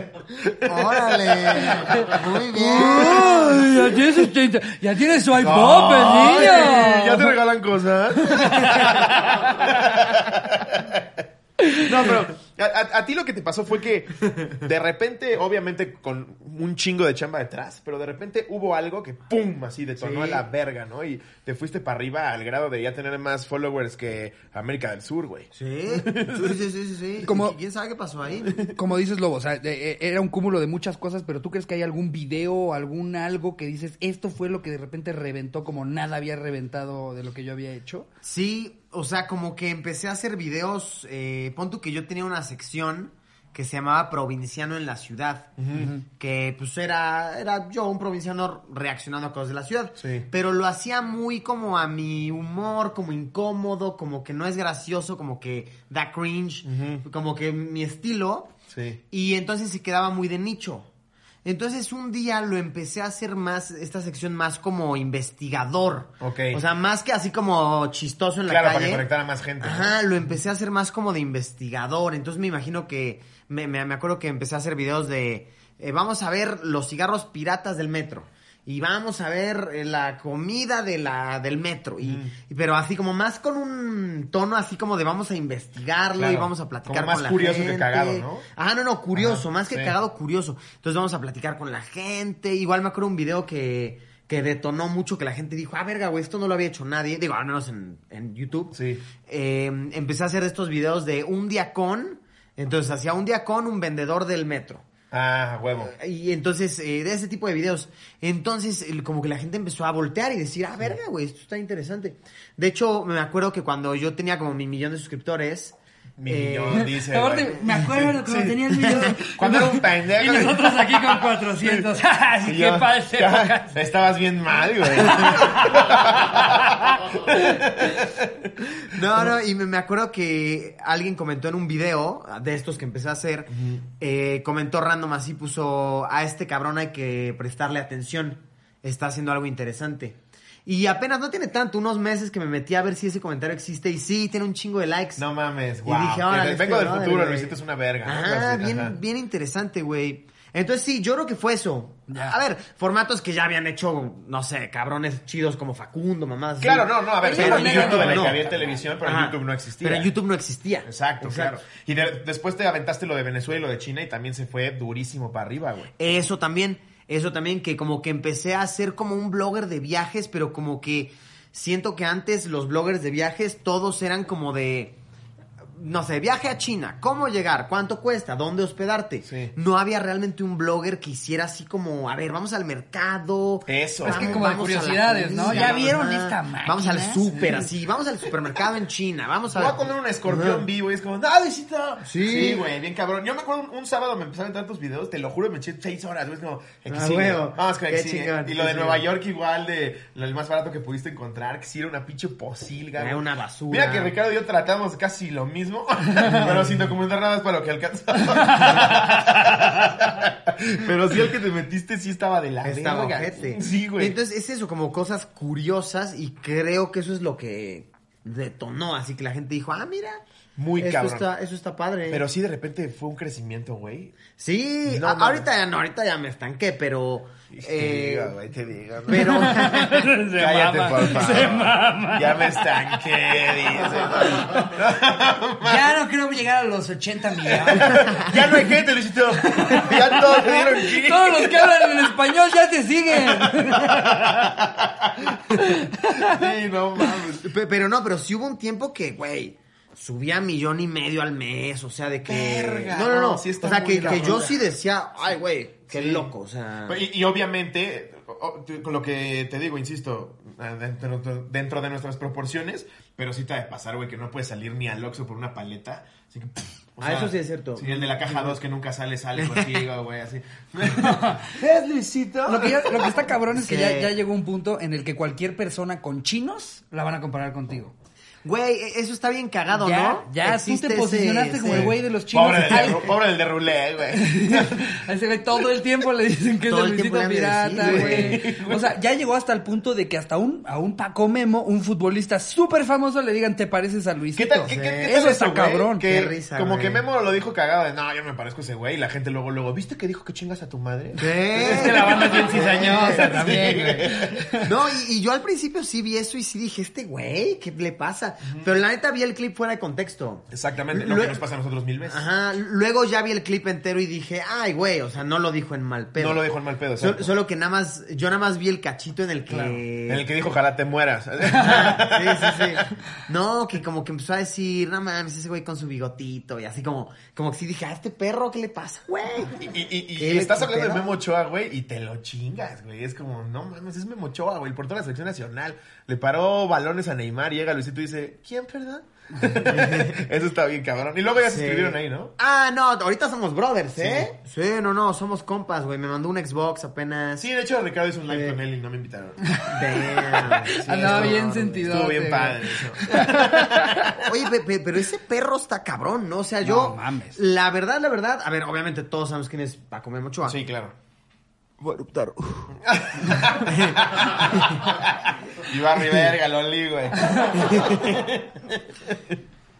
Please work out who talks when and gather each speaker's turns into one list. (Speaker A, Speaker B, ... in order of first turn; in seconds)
Speaker A: 0.3-1.8, 3.3-3.7, 5.4-26.6, 45.6-45.9, 50.0-50.3, 56.7-57.0, 58.7-59.0, 66.2-66.6, 68.5-70.0, 82.0-82.3, 86.2-88.5, 89.2-89.9, 98.7-99.0, 105.1-105.9, 116.2-129.3, 133.5-133.8, 145.2-149.0, 156.6-160.1, 160.8-165.9, 179.2-179.5, 183.7-184.5, 185.4-185.9, 189.5-214.2, 220.6-221.3, 222.1-224.2, 224.9-225.4, 227.5-229.7, 230.3-235.9, 237.4-242.1, 243.1-247.5, 252.3-254.7, 255.9-256.3, 256.9-273.3, 281.7-285.0, 287.8-289.0, 294.4-304.6, 308.5-308.7, 310.5-312.2, 316.2-317.3, 320.1-322.9, 329.6-342.3, 344.0-344.3, 347.4-354.2, 360.4-360.9, 362.8-369.4
Speaker B: 0.6-3.9, 6.0-6.7, 20.0-20.4, 25.5-28.6, 38.2-58.5, 59.1-60.9, 61.4-69.1, 69.6-104.8, 105.8-116.9, 128.8-145.2, 145.8-161.6, 166.0-175.0, 175.8-190.6, 192.0-192.6, 196.9-199.1, 203.0-204.2, 212.6-220.2, 220.8-222.2, 224.4-228.4, 229.1-230.1, 247.4-257.0, 267.0-268.6, 269.4-269.9, 273.5-274.1, 278.4-281.9, 286.7-288.4, 294.7-295.1, 296.0-297.0, 301.2-303.4, 304.6-311.4, 312.1-320.3, 321.6-331.1, 339.6-340.2, 341.4-347.5, 348.3-348.6, 349.7-351.6, 354.0-360.6, 361.8-362.8, 363.4-365.0, 366.0-366.3, 367.5-368.3
Speaker C: 1.8-7.4, 8.2-10.2, 11.6-12.2, 27.2-27.6, 28.7-38.1, 116.8-123.8, 124.9-127.6, 152.1-152.4, 157.2-158.4, 184.1-187.7, 208.3-209.7, 229.1-232.8, 234.2-234.7, 235.6-238.6, 239.4-244.6, 245.5-246.5, 271.0-271.5, 272.5-277.9, 279.7-283.2, 284.1-296.1, 301.6-304.7, 319.5-319.8, 321.5-322.0, 349.4-354.1, 356.6-357.4, 367.1-367.7